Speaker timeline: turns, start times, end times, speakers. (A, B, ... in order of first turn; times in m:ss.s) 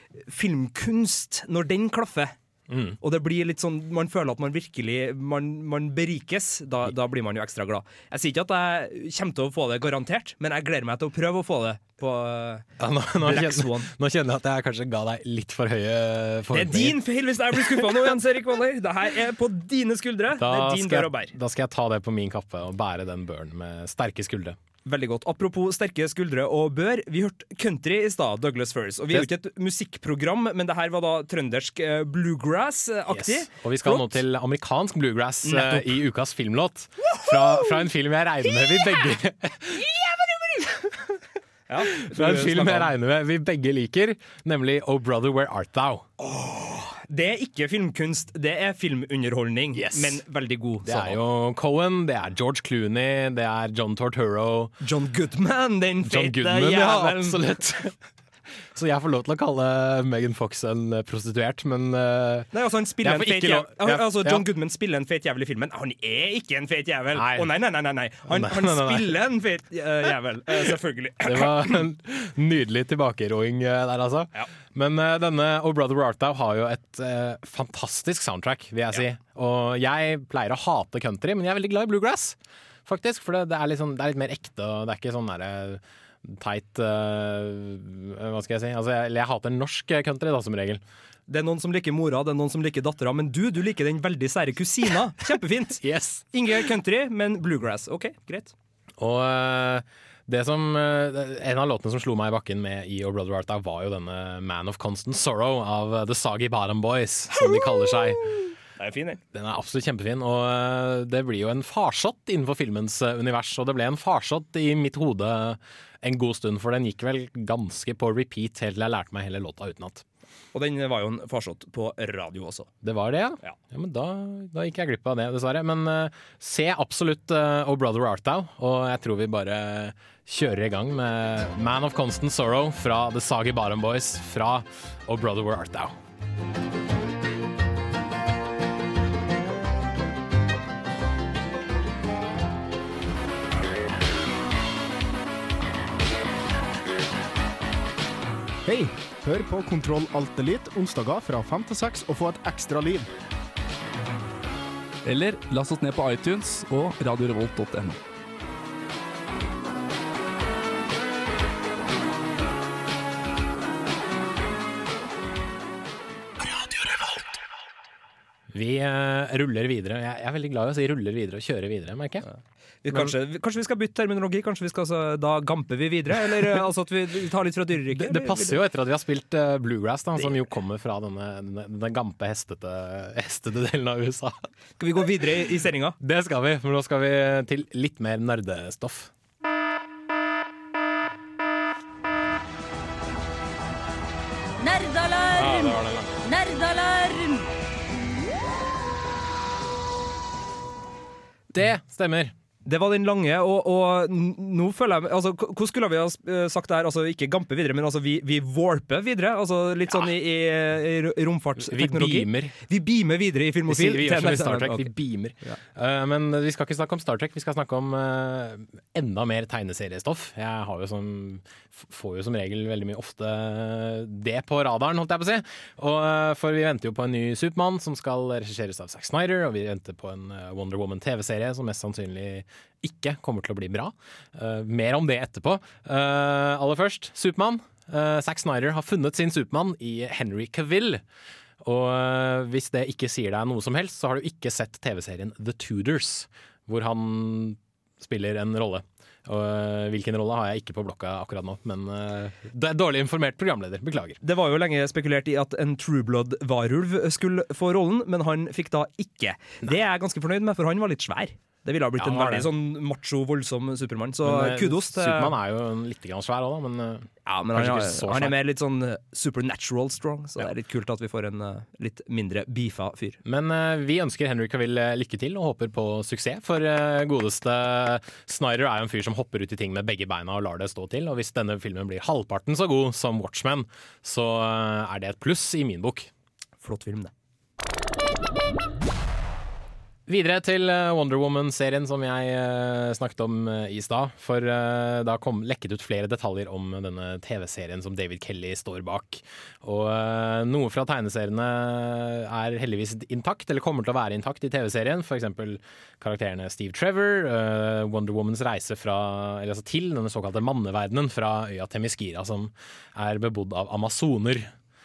0:00.3-0:02.3 A
0:02.7-0:03.0 B
0:03.0-0:12.7 A
0:12.8-0:17.0 B
0:13.2-0:13.9 A
0:16.5-0:21.4 A
0:17.5-0:18.0 B
0:20.4-0:24.6 B
0:24.8-0:34.2 A
0:33.1-0:40.0 B
0:35.4-0:36.0 A
0:40.6-0:40.9 B
0:41.7-0:42.9 A
0:42.0-0:46.1 B
0:46.2-0:51.2 A
0:49.7-0:50.2 B
0:50.8-0:54.7 B
0:54.8-0:57.4 A
0:56.0-0:58.0 B
0:58.7-1:02.5 B
1:02.5-1:11.8 A
1:03.0-1:04.4 B
1:07.1-1:07.5 B
1:08.3-1:09.2 B
1:10.6-1:30.8 B
1:31.3-1:38.5 A
1:35.8-1:36.7 B
1:39.0-1:48.4 B
1:48.8-1:49.2 A
1:49.3-2:00.0 B
2:00.5-2:02.7 A
2:02.8-2:16.0 B
2:28.6-2:33.1 C
2:35.1-2:38.0 D
2:48.5-2:52.3 B
2:52.3-2:58.6 A
2:57.9-3:04.4 B
3:04.8-3:06.0 A
3:06.0-3:09.1 B
3:14.6-3:17.5 E
3:15.3-3:16.2 B
3:21.5-3:22.3 B
3:22.6-3:34.9 A
3:31.6-3:32.6 B
3:33.7-4:01.0 B
4:01.6-4:14.2 B
4:14.2-4:25.3 A
4:22.0-4:22.5 B
4:24.2-4:28.3 B
4:27.2-4:33.2 A
4:33.2-4:46.1 B
4:46.6-4:47.1 A
4:50.1-5:14.5 B